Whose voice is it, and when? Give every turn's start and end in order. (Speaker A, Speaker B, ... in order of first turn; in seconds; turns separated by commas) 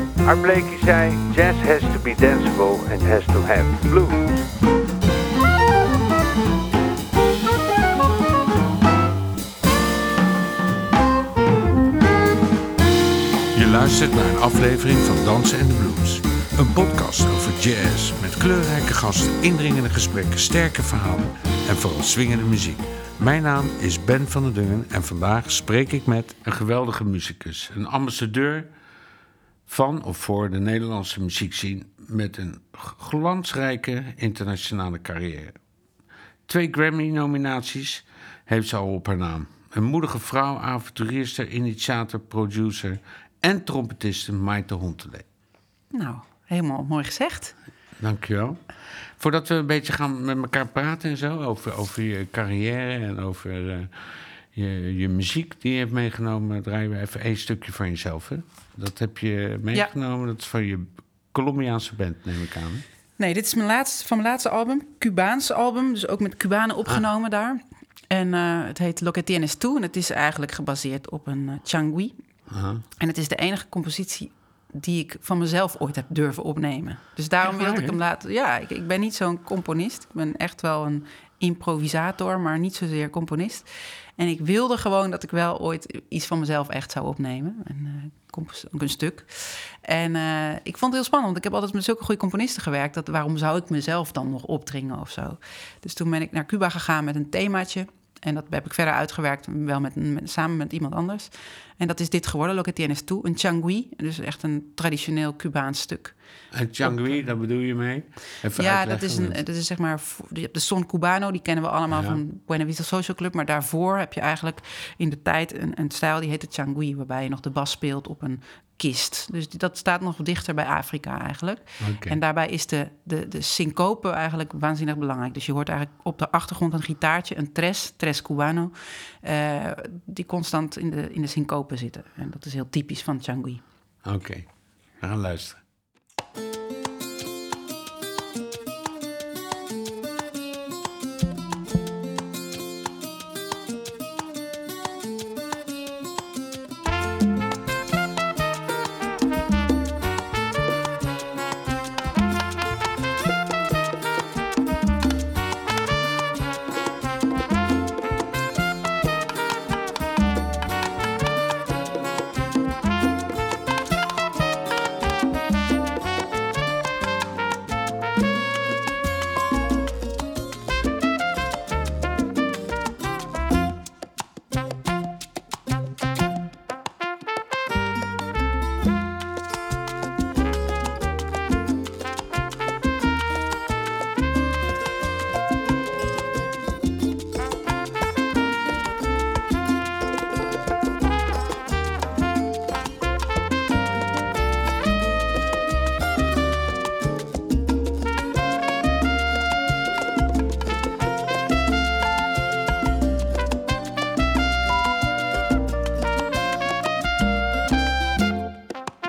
Speaker A: 0.2-4.4, Speaker B: 13.5-28.7, Speaker B: 29.7-35.6, Speaker B: 36.5-45.2, Speaker C: 45.9-47.5, Speaker B: 48.0-48.6, Speaker B: 49.2-62.8, Speaker C: 63.2-72.2, Speaker B: 72.5-72.8, Speaker C: 73.0-106.2, Speaker B: 77.4-78.0, Speaker B: 106.5-109.4, Speaker C: 106.8-107.2, Speaker C: 108.6-133.6, Speaker B: 111.9-112.2, Speaker B: 121.8-122.2, Speaker B: 134.0-134.5, Speaker B: 135.0-135.6